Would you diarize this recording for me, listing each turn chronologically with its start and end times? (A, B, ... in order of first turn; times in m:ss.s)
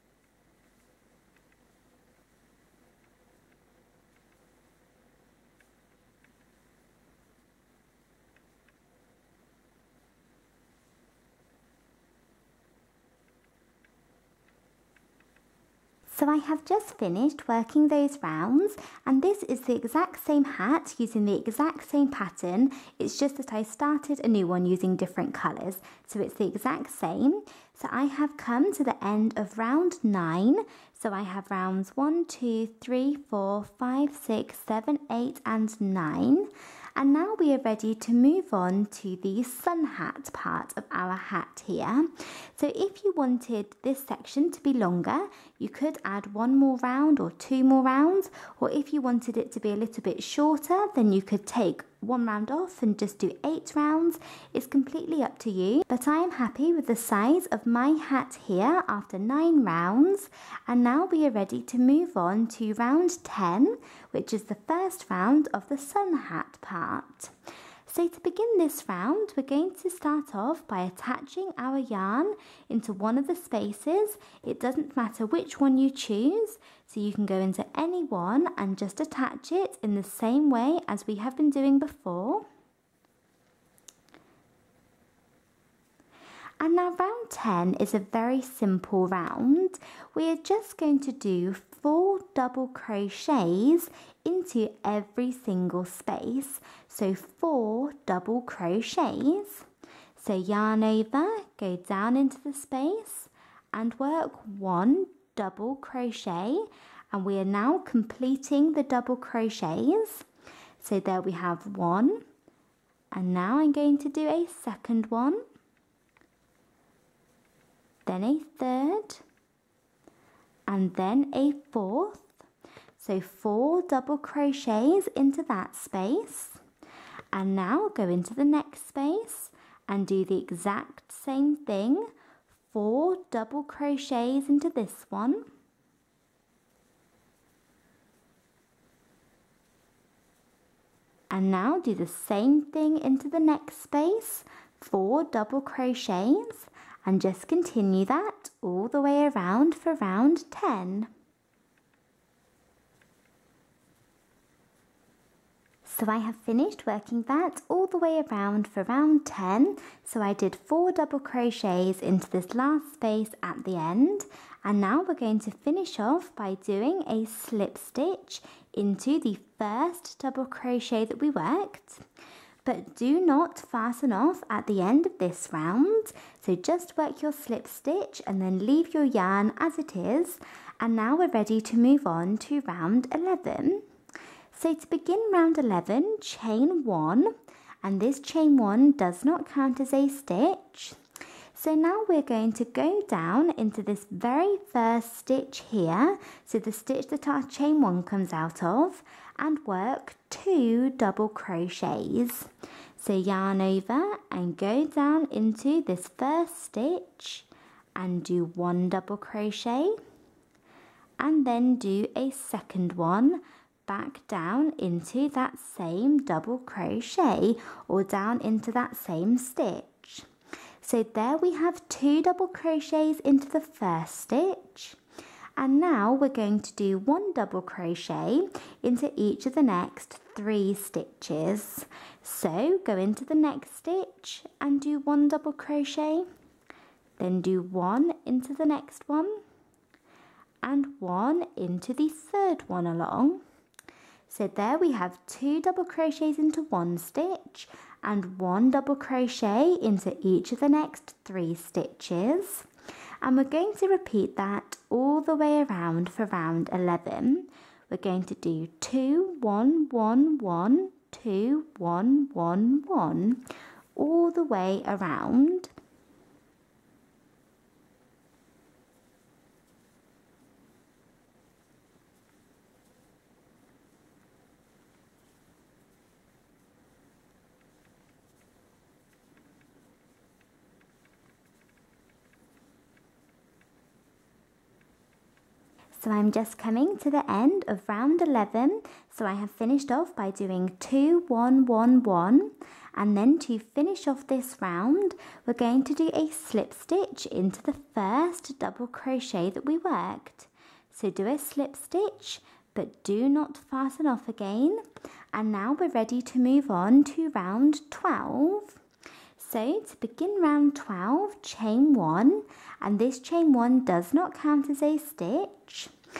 0:16.1-1:07.3 A
1:07.9-1:22.5 A
1:26.6-1:50.2 A
1:50.8-1:52.2 A
1:53.1-1:55.4 A
1:58.0-1:59.2 A
2:00.7-2:02.4 A
2:03.0-2:06.6 A
2:07.3-2:12.1 A
2:12.7-2:15.4 A
2:21.3-2:31.1 A
2:35.8-2:52.0 A
2:52.6-3:03.8 A
3:04.5-3:11.0 A
3:11.5-3:30.0 A
3:31.2-3:40.3 A
3:40.8-3:45.0 A
3:45.6-3:56.3 A
3:57.2-3:59.4 A
4:00.6-4:03.4 A
4:04.3-4:12.7 A
4:13.2-4:23.4 A
4:24.0-4:25.7 A
4:46.0-5:04.8 A
5:05.3-5:08.8 A
5:09.4-5:15.9 A